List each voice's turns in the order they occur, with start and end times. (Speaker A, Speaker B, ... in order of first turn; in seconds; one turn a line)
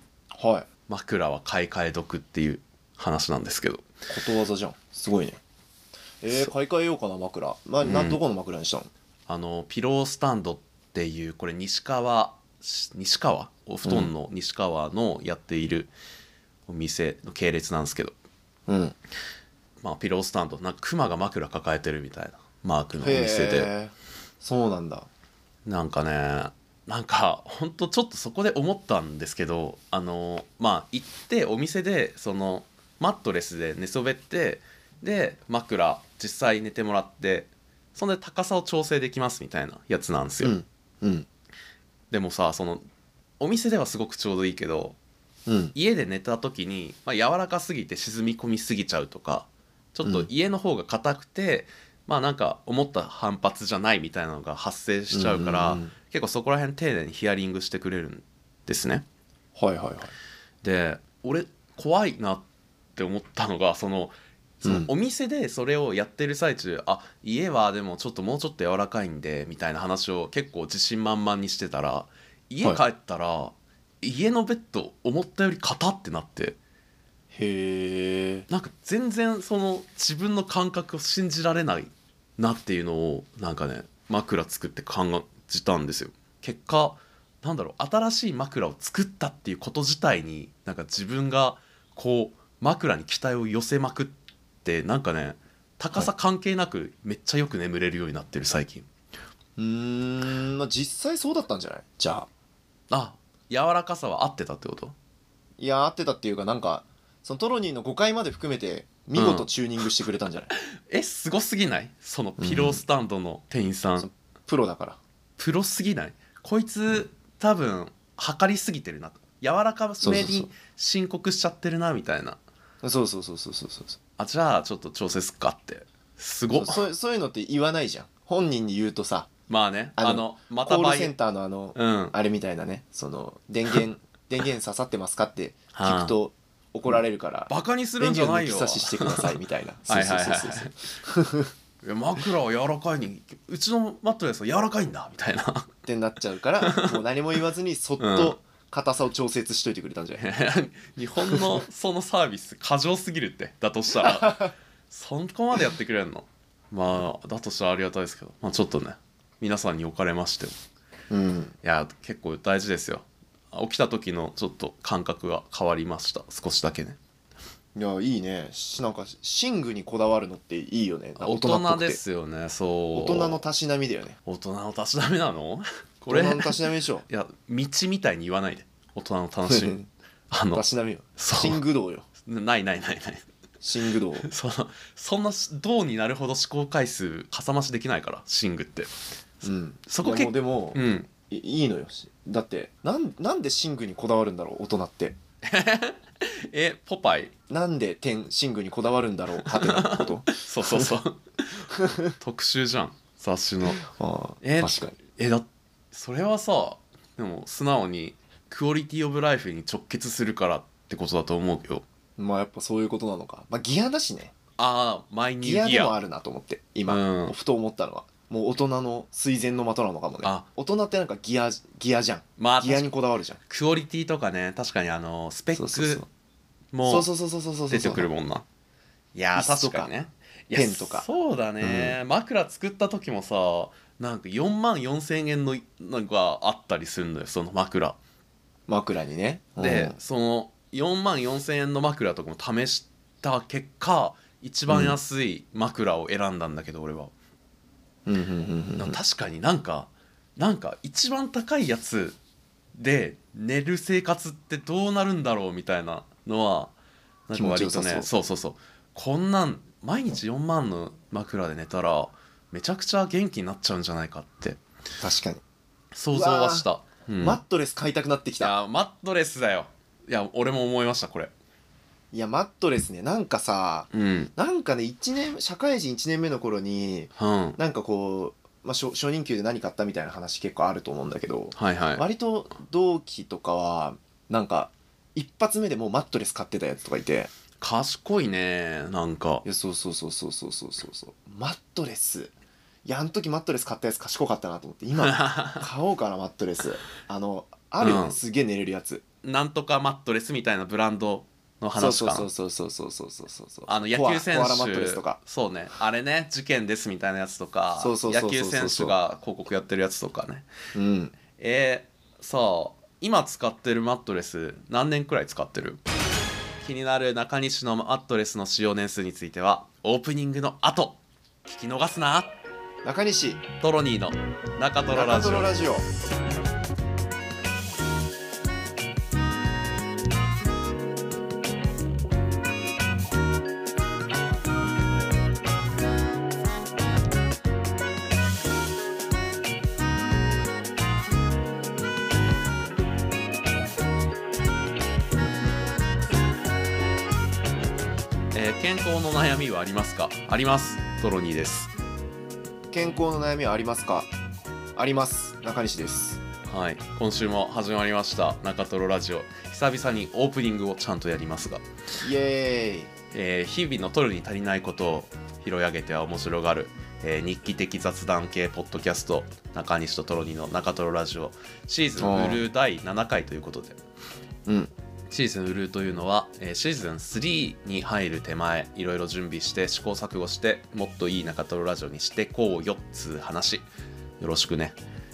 Speaker A: 0.3-0.7
Speaker B: 0.9-3.9
Speaker A: 4.1-5.4
Speaker A: 6.2-8.9
Speaker B: 7.8-8.2
Speaker B: 9.3-15.9
Speaker A: 13.8-14.1
Speaker B: 16.7-18.1
Speaker A: 18.7-19.0
Speaker B: 19.8-23.7
Speaker A: 23.0-25.1
Speaker B: 25.7-40.5
Speaker A: 40.4-41.3
Speaker B: 42.1-42.8
Speaker B: 43.4-45.0
Speaker A: 45.5-45.7
Speaker B: 45.7-59.0
Speaker A: 55.1-55.9
Speaker A: 59.6-60.1
Speaker B: 60.6-62.5
Speaker B: 63.0-76.6
Speaker A: 64.6-64.9
Speaker A: 77.3-78.5
Speaker B: 78.5-98.9
Speaker A: 99.6-102.3
Speaker B: 102.9-105.0
Speaker A: 105.6-110.5
Speaker B: 109.2-109.5
Speaker B: 110.8-114.1
Speaker A: 112.4-112.8
Speaker A: 114.0-115.0
Speaker B: 115.4-122.4
Speaker A: 120.0-120.5
Speaker A: 122.8-124.0
Speaker B: 124.2-126.8
Speaker A: 126.5-129.3
Speaker B: 129.5-131.1
Speaker A: 130.0-141.5
Speaker B: 131.8-132.1
Speaker B: 135.7-136.2
Speaker B: 137.5-139.4
Speaker B: 139.9-140.8
Speaker B: 141.8-145.7
Speaker A: 145.9-150.3
Speaker B: 146.6-147.0
Speaker B: 148.0-148.4
Speaker B: 150.2-160.6
Speaker A: 151.2-151.5
Speaker A: 154.0-154.4
Speaker A: 161.1-161.6
Speaker B: 161.6-167.0
Speaker A: 167.8-172.0
Speaker B: 171.2-173.4
Speaker A: 172.9-174.2
Speaker B: 174.3-179.8
Speaker A: 176.1-177.0
Speaker A: 179.5-179.9
Speaker B: 180.3-180.6
Speaker A: 180.5-182.1
Speaker B: 181.2-181.6
Speaker B: 182.3-183.2
Speaker A: 183.6-184.3
Speaker B: 184.2-188.9
Speaker A: 189.4-195.2
Speaker B: 189.9-191.1
Speaker B: 195.4-197.3
Speaker A: 197.5-200.9
Speaker B: 199.4-203.8
Speaker A: 201.8-202.1
Speaker A: 203.7-205.0
Speaker B: 204.4-211.8
Speaker A: 212.2-214.3
Speaker B: 214.6-216.0
Speaker A: 215.4-223.4
Speaker B: 216.9-217.3
Speaker B: 222.4-222.9
Speaker B: 223.5-226.0
Speaker A: 225.6-226.1
Speaker B: 226.7-227.1
Speaker A: 226.8-228.1
Speaker B: 227.7-228.5
Speaker B: 229.2-238.0
Speaker A: 229.3-229.9
Speaker A: 230.5-231.1
Speaker A: 231.6-232.0
Speaker A: 238.7-240.0
Speaker B: 239.6-247.1
Speaker A: 244.7-245.0
Speaker A: 248.1-249.0
Speaker B: 248.8-252.2
Speaker B: 252.8-256.7
Speaker B: 257.3-264.6
Speaker A: 257.4-258.1
Speaker A: 265.0-265.4
Speaker B: 265.9-267.4
Speaker A: 266.1-266.7
Speaker A: 267.2-268.5
Speaker B: 268.4-271.3
Speaker A: 272.1-287.3
Speaker B: 273.9-274.3
Speaker B: 277.2-277.6
Speaker B: 281.6-282.1
Speaker B: 287.6-289.4
Speaker A: 289.4-292.3
Speaker A: 292.9-299.0
Speaker B: 295.0-295.6
Speaker B: 297.8-298.2
Speaker B: 299.2-302.3
Speaker A: 301.8-305.2
Speaker B: 303.7-310.5
Speaker A: 307.8-309.0
Speaker A: 310.7-311.1
Speaker B: 311.3-315.8
Speaker B: 316.6-322.4
Speaker A: 322.8-323.4
Speaker B: 323.6-325.6
Speaker A: 324.9-325.9
Speaker B: 348.3-351.7
Speaker A: 352.7-354.1
Speaker A: 354.8-356.2
Speaker B: 356.5-361.6
Speaker A: 362.0-362.9
Speaker B: 363.1-373.8
Speaker A: 372.0-372.4
Speaker A: 374.5-374.7
Speaker B: 375.1-383.6
Speaker B: 384.2-384.8